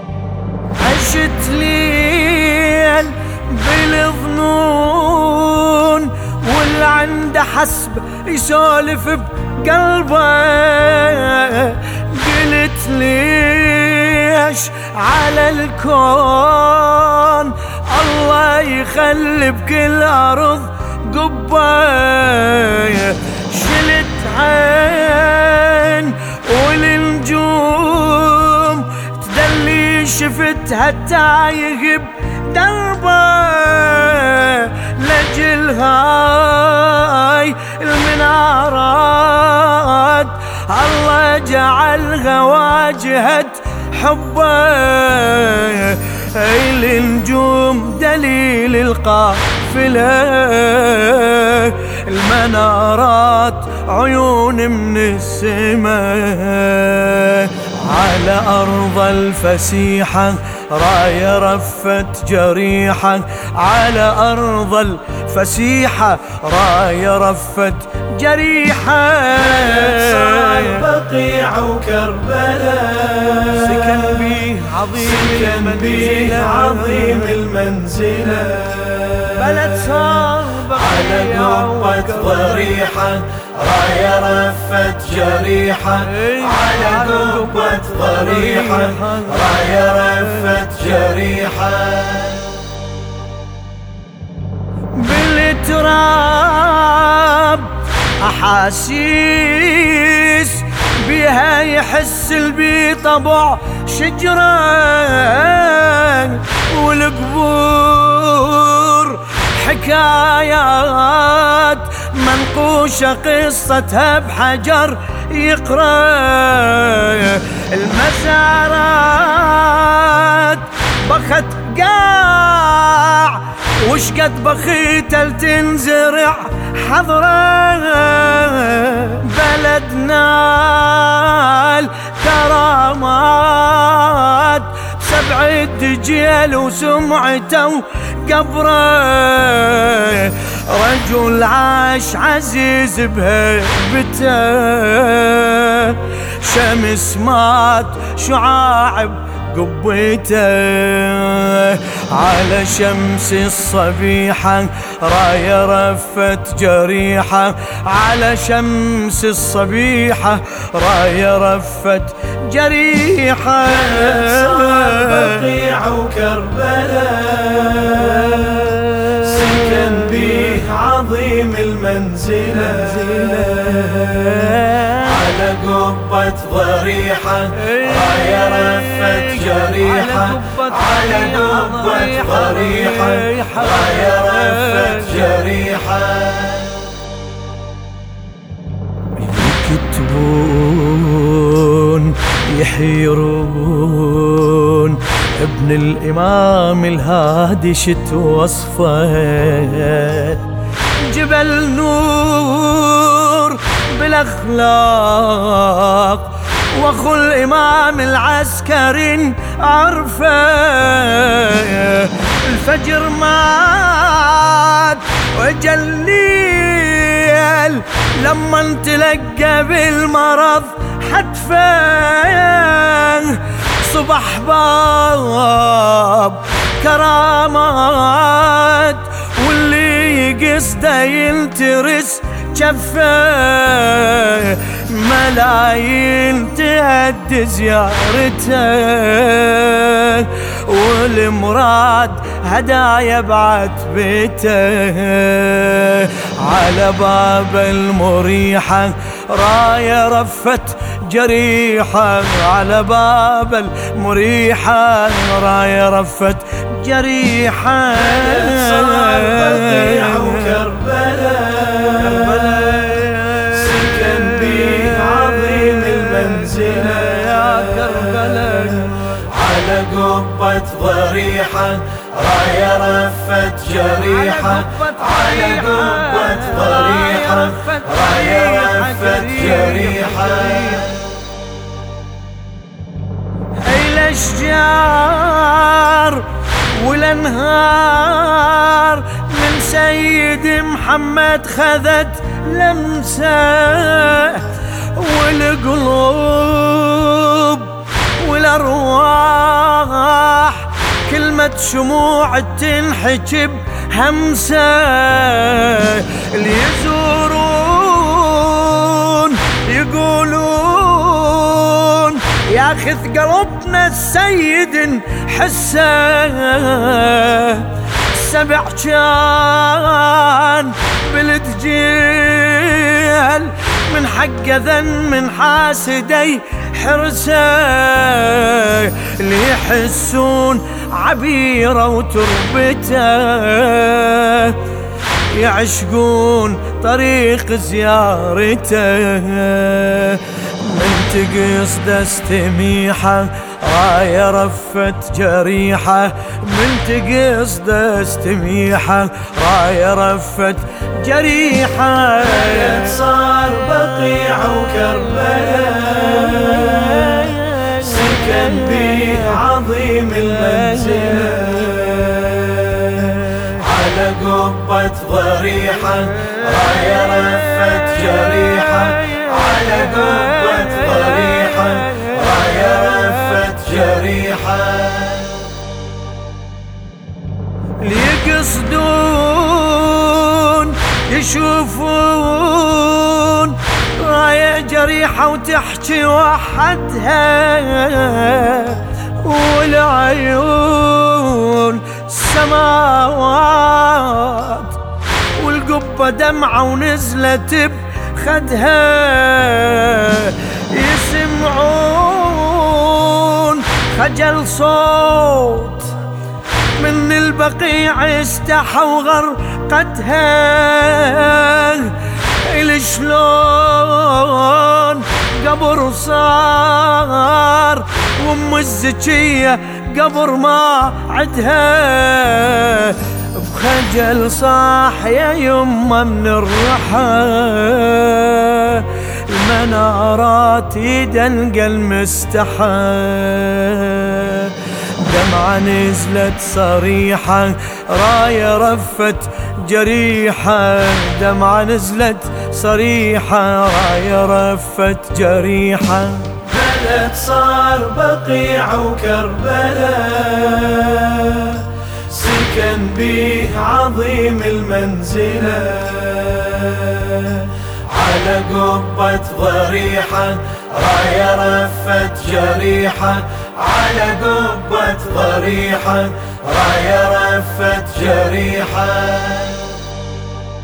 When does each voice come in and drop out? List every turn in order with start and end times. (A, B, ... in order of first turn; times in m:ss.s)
0:00.8-1:10.8 A
1:09.4-1:14.4 B
1:13.5-1:17.4 A
1:15.0-1:19.6 B
1:19.3-1:23.0 A
1:20.8-1:29.4 B
1:26.0-1:31.0 A
1:30.7-1:32.6 B
1:35.0-2:45.4 A
2:43.7-2:54.0 B
2:48.3-2:50.5 A
2:53.0-2:55.1 A
2:55.0-2:58.2 B
2:57.6-3:05.6 A
2:58.9-3:03.2 B
3:05.1-3:06.5 B
3:06.2-3:06.7 A
3:09.2-3:20.5 A
3:21.0-4:20.6 A
4:18.0-4:22.9 B
4:22.0-4:29.2 A
4:23.5-4:28.3 B
4:29.2-4:40.4 B
4:33.7-4:41.1 A
4:43.6-5:34.6 A
5:35.3-5:53.0 A
5:52.2-5:57.3 B
5:57.0-5:57.9 A
5:57.9-6:02.2 B
6:01.6-6:03.6 A
6:03.6-6:12.4 B
6:06.2-6:14.0 A
6:13.6-6:15.4 B
6:14.9-6:15.2 A
6:17.8-6:34.8 A
6:35.4-6:45.9 A
6:46.8-7:26.4 A
7:26.4-7:49.8 B